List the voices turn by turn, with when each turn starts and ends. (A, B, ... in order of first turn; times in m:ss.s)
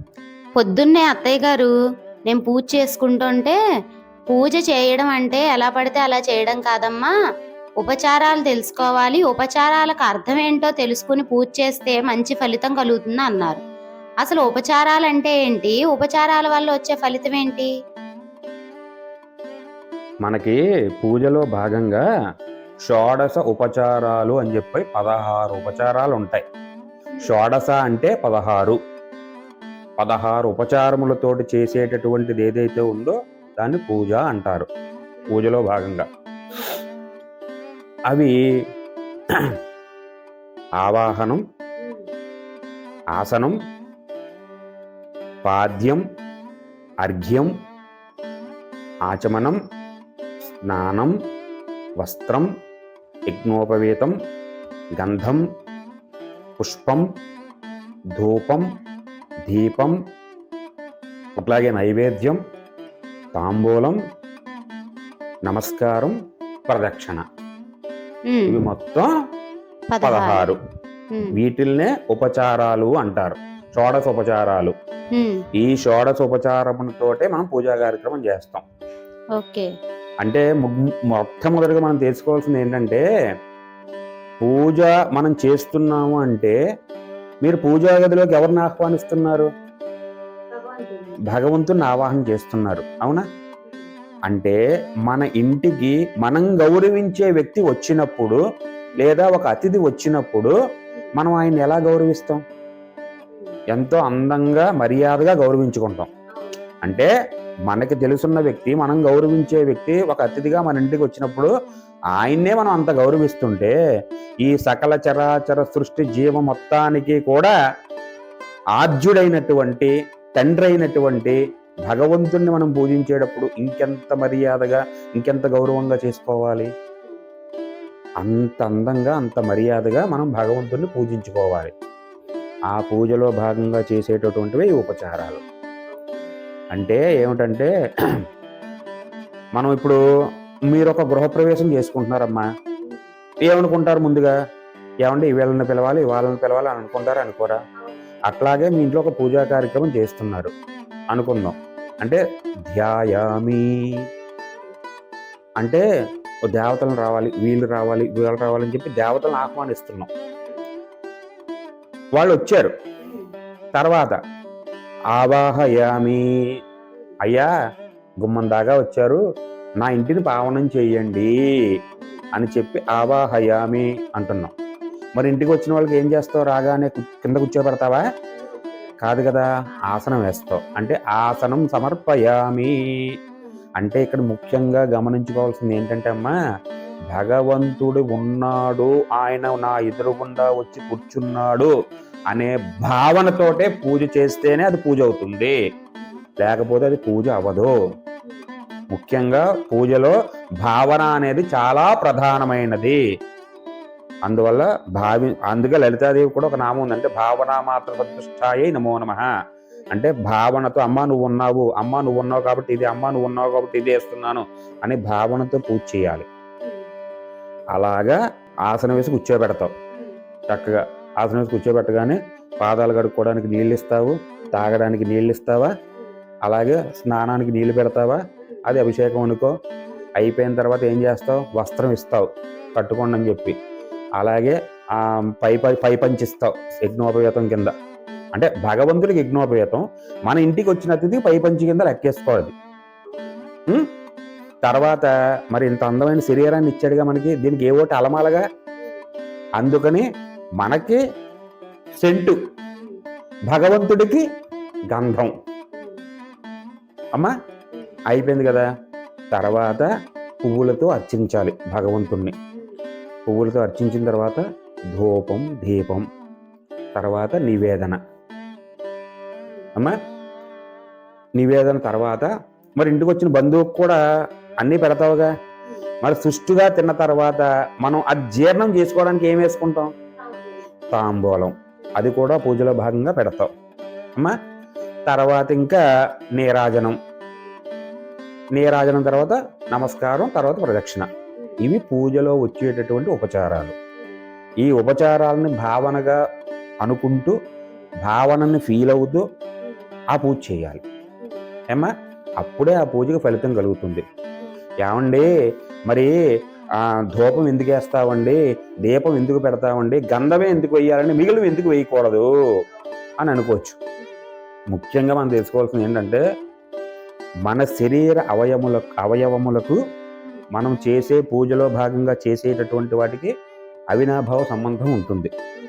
0:00.6-0:01.7 A
0:02.3-0:03.6 A
0:04.3-0:07.1 A
0:07.8-0:13.6 A
0:14.2-0:17.7 A
0:20.2-0:22.0 B
0:22.8-0:26.4 B
0:27.2-0:28.8 B
0:30.0-0:34.7 B
0:35.3-0:36.0 B
0:38.1-0:38.3 B
0:40.8-0:41.4 B
0:43.2-0:43.6 B
0:45.4-0:46.0 B
0:47.0-0:47.5 B
0:49.1-0:49.6 B
0:50.6-0:51.1 B
0:52.0-0:52.5 B
0:53.3-0:54.1 B
0:55.0-0:55.4 B
0:56.6-0:57.0 B
0:58.2-0:58.6 B
0:59.4-1:00.0 B
1:01.4-1:02.4 B
1:03.3-1:04.0 B
1:05.5-1:06.2 B
1:06.7-1:07.2 B
1:08.3-1:08.7 A
1:08.5-1:09.1 B
1:09.9-1:10.5 A
1:10.0-1:10.6 B
1:11.1-1:11.4 A
1:11.3-1:14.7 B
1:15.1-1:15.4 A
1:15.6-1:18.6 B
1:19.4-1:19.7 A
1:20.2-1:23.0 B
1:24.4-1:26.6 B
1:27.4-1:29.5 B
1:30.5-1:31.2 A
1:31.3-1:33.2 B
1:34.3-1:38.4 B
1:39.0-1:40.5 B
1:41.2-1:42.4 B
1:43.7-1:46.1 B
1:46.8-1:47.1 B
1:47.7-1:51.5 B
1:52.2-1:53.7 B
1:54.4-1:57.5 B
1:58.8-2:06.7 B
2:08.2-2:11.7 B
2:12.7-2:15.4 B
2:15.9-2:16.3 A
2:16.7-2:17.7 B
2:19.6-2:20.0 B
2:20.7-2:22.4 B
2:23.5-2:24.4 B
2:25.0-2:27.6 B
2:28.3-2:30.5 B
2:31.1-2:33.9 B
2:35.6-2:35.8 B
2:36.5-2:40.1 B
2:42.2-2:42.7 B
2:43.0-2:43.3 A
2:43.7-2:44.2 B
2:45.1-2:46.2 B
2:47.2-2:47.5 B
2:48.2-2:49.2 B
2:49.8-2:51.3 B
2:52.4-2:54.5 B
2:55.2-2:58.0 B
2:59.0-3:02.7 B
3:03.8-3:06.4 B
3:07.1-3:11.7 B
3:12.3-3:15.6 B
3:16.4-3:17.7 B
3:18.9-3:23.0 B
3:24.3-3:29.2 B
3:29.9-3:36.2 B
3:37.7-3:39.7 B
3:40.5-3:45.7 B
3:46.4-3:49.5 B
3:50.2-3:53.6 B
3:54.2-3:57.7 B
3:58.3-4:02.5 B
4:04.6-4:08.4 B
4:09.6-4:10.1 B
4:10.6-4:11.0 B
4:12.0-4:12.4 B
4:13.5-4:14.2 B
4:14.9-4:15.3 B
4:18.1-4:18.7 B
4:19.3-4:19.9 B
4:20.4-4:22.3 B
4:23.3-4:26.0 B
4:26.9-4:28.0 B
4:31.4-4:34.0 B
4:34.6-4:35.3 B
4:36.0-4:39.9 B
4:40.3-4:40.6 A
4:40.9-4:43.5 B
4:45.1-4:45.8 B
4:46.4-4:47.0 B
4:48.6-4:51.1 B
4:51.6-4:53.7 B
4:54.6-4:56.2 B
4:56.8-4:57.4 B
4:58.0-4:59.2 B
5:00.1-5:00.8 B
5:02.4-5:04.0 B
5:04.8-5:05.2 B
5:05.9-5:06.1 B
5:06.8-5:12.3 B
5:13.2-5:13.8 B
5:14.7-5:16.2 B
5:17.5-5:19.8 B
5:20.5-5:23.3 B
5:23.9-5:25.3 B